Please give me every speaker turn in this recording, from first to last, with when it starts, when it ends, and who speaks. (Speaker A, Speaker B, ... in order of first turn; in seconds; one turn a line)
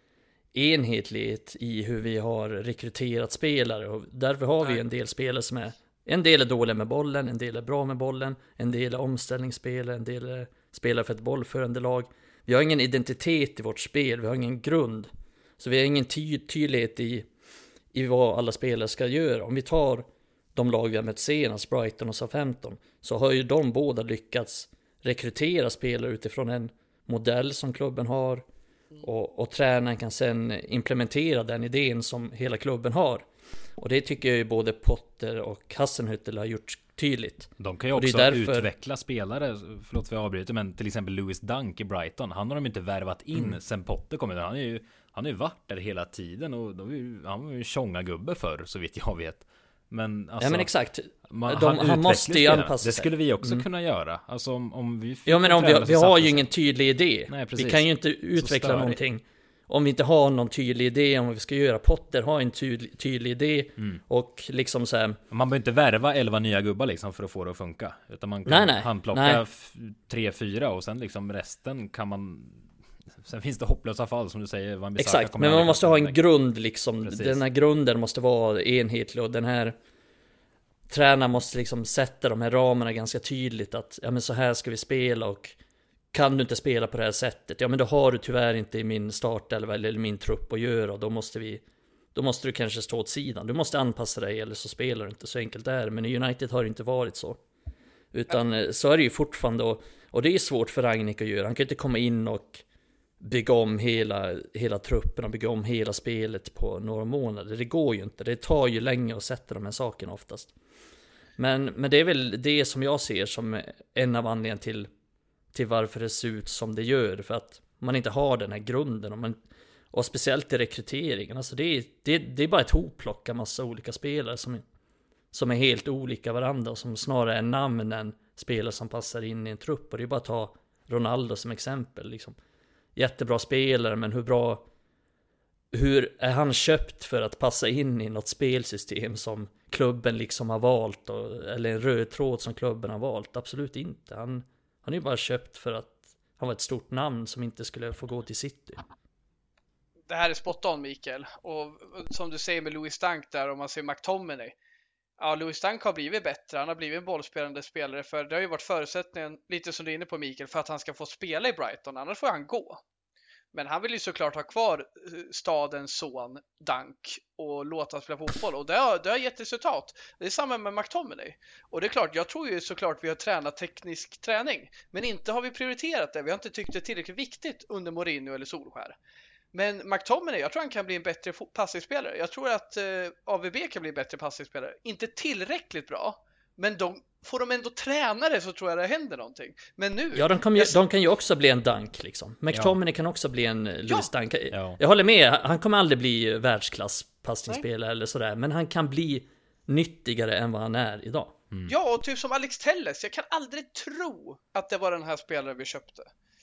Speaker A: 0.5-17.3
Speaker A: 17.9-28.4
Speaker A: 29.0-33.2
Speaker A: 33.8-38.7
Speaker B: 37.6-50.7
Speaker A: 50.4-53.7
Speaker B: 51.3-56.5
Speaker A: 55.2-65.2
Speaker B: 57.3-59.0
Speaker B: 65.3-76.2
Speaker A: 68.5-69.4
Speaker A: 75.0-79.8
Speaker B: 77.0-77.4
Speaker A: 80.9-85.6
Speaker A: 86.1-91.6
Speaker A: 92.1-97.4
Speaker A: 98.1-102.6
Speaker A: 103.2-110.5
Speaker A: 111.4-114.9
Speaker A: 115.5-119.4
Speaker A: 119.9-124.6
Speaker A: 125.3-132.4
Speaker A: 132.9-134.7
Speaker A: 135.7-148.8
Speaker C: 150.1-154.6
Speaker C: 155.2-162.8
Speaker C: 163.5-178.9
Speaker C: 179.5-190.8
Speaker A: 190.1-201.3
Speaker B: 192.5-192.8
Speaker B: 194.5-194.8
Speaker C: 201.7-206.1